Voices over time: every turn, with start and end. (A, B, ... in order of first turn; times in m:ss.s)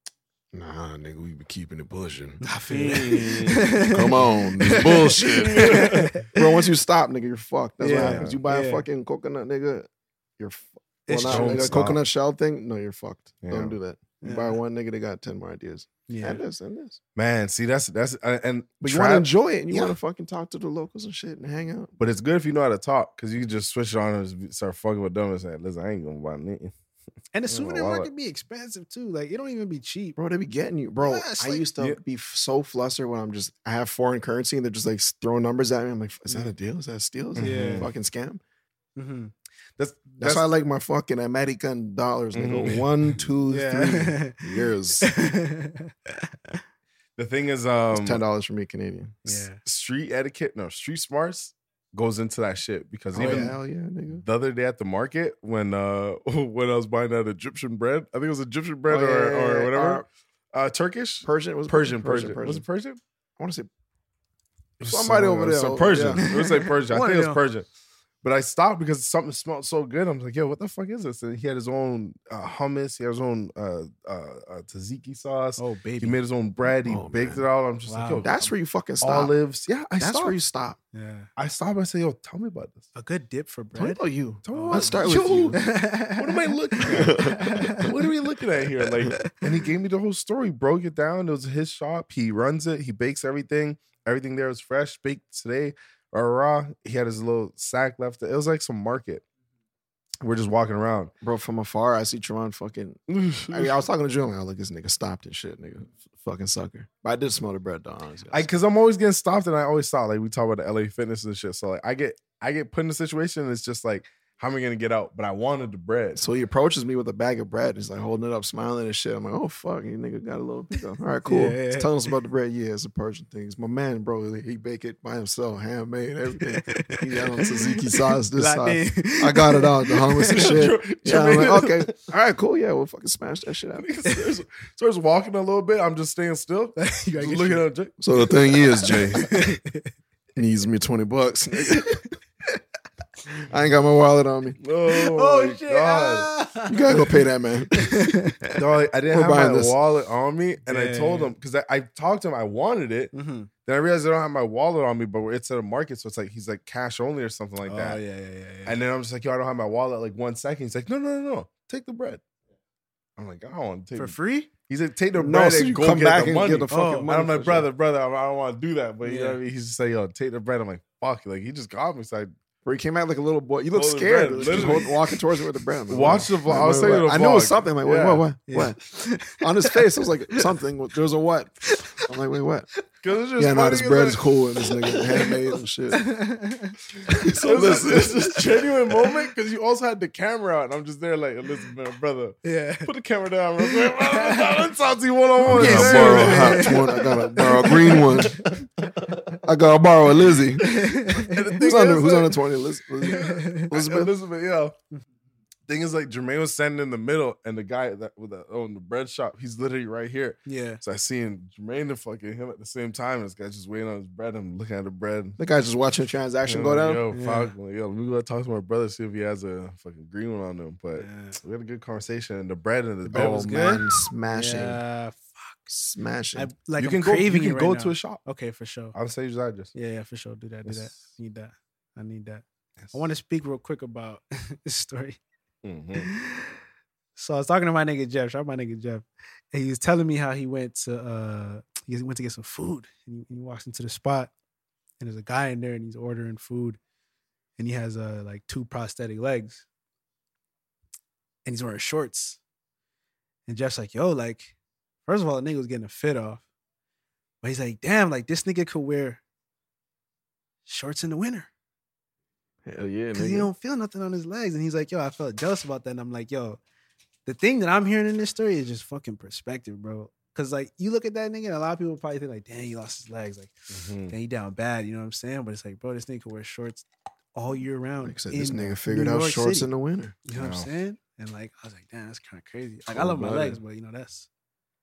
0:00.5-0:02.4 A
0:02.4-0:06.4 B
0:02.7-0:03.7 C
0:03.1-0:17.0 A
0:04.6-0:06.2 C
0:07.8-0:08.8 B
0:07.9-0:08.4 C
0:11.1-0:11.8 B
0:11.2-0:12.0 C
0:13.4-0:13.8 C
0:14.2-0:14.6 B
0:16.1-0:16.4 B
0:17.2-0:20.0 C
0:18.8-0:21.9 A
0:22.0-0:26.7 C
0:27.3-0:30.2 B
0:27.5-0:28.1 C
0:30.2-0:38.4 A
0:31.0-0:31.6 B
0:37.3-0:37.9 C
0:37.4-0:37.9 B
0:39.0-0:39.3 B
0:39.8-0:40.4 C
0:40.2-0:45.1 A
0:42.3-0:43.3 C
0:43.5-0:44.4 B
0:45.0-0:46.6 B
0:47.2-0:48.2 C
0:47.9-0:49.4 A
0:49.2-0:49.6 B
0:49.6-0:53.6 C
0:53.1-0:54.2 A
0:53.2-0:53.5 B
0:54.1-1:03.0 C
0:58.9-1:00.0 A
1:01.2-1:02.6 A
1:03.4-1:03.7 A
1:04.8-1:07.7 C
1:04.8-1:06.2 A
1:06.2-1:07.4 B
1:08.2-1:18.4 C
1:15.6-1:16.2 B
1:16.8-1:17.4 A
1:17.9-1:18.2 B
1:18.2-1:19.3 A
1:19.0-1:20.4 C
1:20.0-1:20.8 A
1:20.9-1:21.3 B
1:21.4-1:22.9 C
1:22.9-1:27.9 B
1:23.7-1:25.6 A
1:24.4-1:39.2 C
1:26.8-1:27.9 A
1:40.2-1:41.1 C
1:41.2-1:48.5 A
1:43.1-1:43.8 C
1:48.3-1:56.2 C
1:56.1-2:13.9 A
2:01.2-2:02.2 B
2:06.4-2:07.7 B
2:08.3-2:10.6 B
2:10.2-2:11.9 C
2:13.8-2:19.2 C
2:16.8-2:17.7 B
2:18.0-2:19.4 A
2:18.9-2:19.9 B
2:20.4-2:22.0 A
2:21.6-2:22.0 B
2:23.3-2:24.6 A
2:24.6-2:26.3 C
2:24.9-2:27.1 B
2:26.7-2:27.9 A
2:27.7-2:28.6 B
2:28.5-2:33.1 C
2:29.1-2:29.7 A
2:30.6-2:31.3 B
2:33.1-2:33.5 B
2:33.6-2:38.0 C
2:37.6-2:38.8 B
2:38.6-2:42.2 C
2:43.2-2:44.2 C
2:43.9-2:44.5 B
2:44.7-2:52.3 C
2:45.2-2:47.7 A
2:46.7-2:47.1 B
2:49.0-2:49.4 B
2:52.6-2:58.8 A
2:53.7-2:55.0 C
2:54.4-2:54.9 B
2:55.9-2:58.2 C
2:58.5-2:59.8 B
2:59.3-3:02.7 A
3:01.7-3:01.9 B
3:03.0-3:04.2 C
3:03.4-3:06.1 A
3:04.7-3:05.0 B
3:05.9-3:08.2 B
3:07.1-3:08.2 A
3:07.3-3:19.2 C
3:12.4-3:12.9 B
3:13.6-3:14.6 B
3:15.4-3:18.7 B
3:15.4-3:18.4 A
3:19.4-3:20.7 A
3:20.6-3:21.6 B
3:21.1-3:22.4 C
3:21.6-3:24.1 A
3:23.0-3:23.7 B
3:23.0-3:24.8 C
3:25.7-3:35.4 C
3:30.4-3:30.8 B
3:35.4-3:37.0 A
3:36.4-3:43.8 C
3:37.1-3:37.5 B
3:41.0-3:41.4 B
3:43.1-3:45.7 B
3:43.5-3:44.8 A
3:45.7-3:46.5 A
3:46.3-3:49.0 B
3:46.8-3:48.2 C
3:48.9-3:49.7 C
3:49.7-3:55.2 B
3:50.6-3:51.0 C
3:55.6-3:56.1 C
3:56.0-3:56.6 B
3:57.2-4:04.3 B
4:05.0-4:06.8 B
4:07.6-4:09.6 B
4:11.4-4:12.4 B
4:13.5-4:14.5 B
4:15.0-4:16.4 B
4:17.4-4:19.2 B
4:20.6-4:21.5 B
4:22.6-4:23.5 A
4:23.1-4:26.6 B
4:27.2-4:39.7 B
4:33.7-4:34.2 C
4:38.0-4:40.2 A
4:40.2-4:44.3 B
4:40.3-4:40.7 C
4:42.9-4:43.6 A